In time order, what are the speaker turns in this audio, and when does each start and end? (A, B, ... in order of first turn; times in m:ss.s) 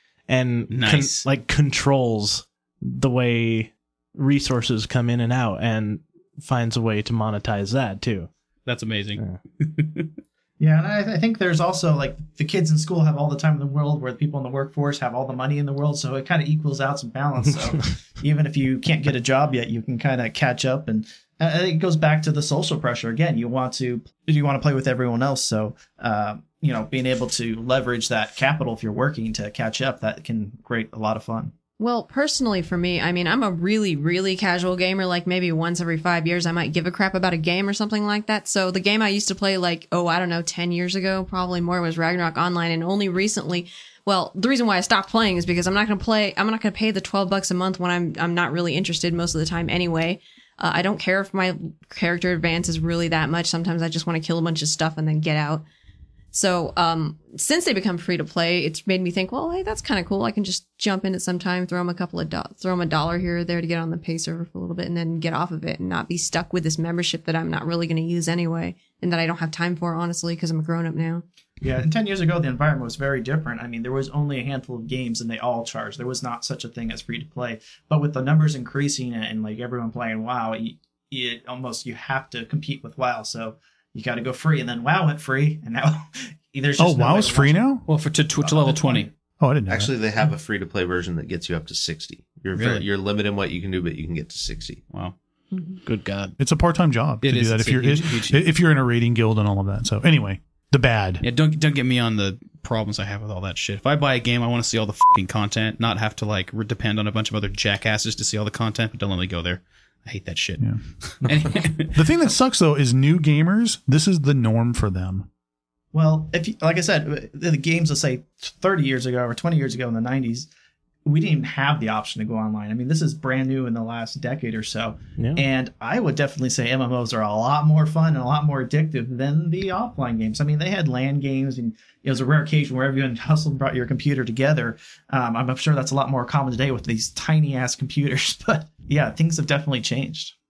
0:00.3-0:08.3 A
0:00.7-0:01.3 B
0:08.6-0:10.1 B
0:10.6-0:31.5 C
0:31.8-0:55.6 D
0:56.3-1:11.2 D
1:11.6-1:27.7 C
1:26.8-1:27.8 E
1:27.9-1:29.1 B
1:28.4-1:29.1 C
1:29.4-1:29.9 E
1:29.7-1:34.8 F
1:32.5-1:32.9 B
1:34.9-1:35.2 B
1:35.5-1:35.8 D
1:35.8-1:36.3 A
1:36.4-1:41.2 E
1:37.2-1:38.4 B
1:41.2-1:52.0 B
1:50.6-1:55.3 E
1:55.9-2:00.5 C
2:01.0-2:20.3 C
2:05.2-2:05.4 A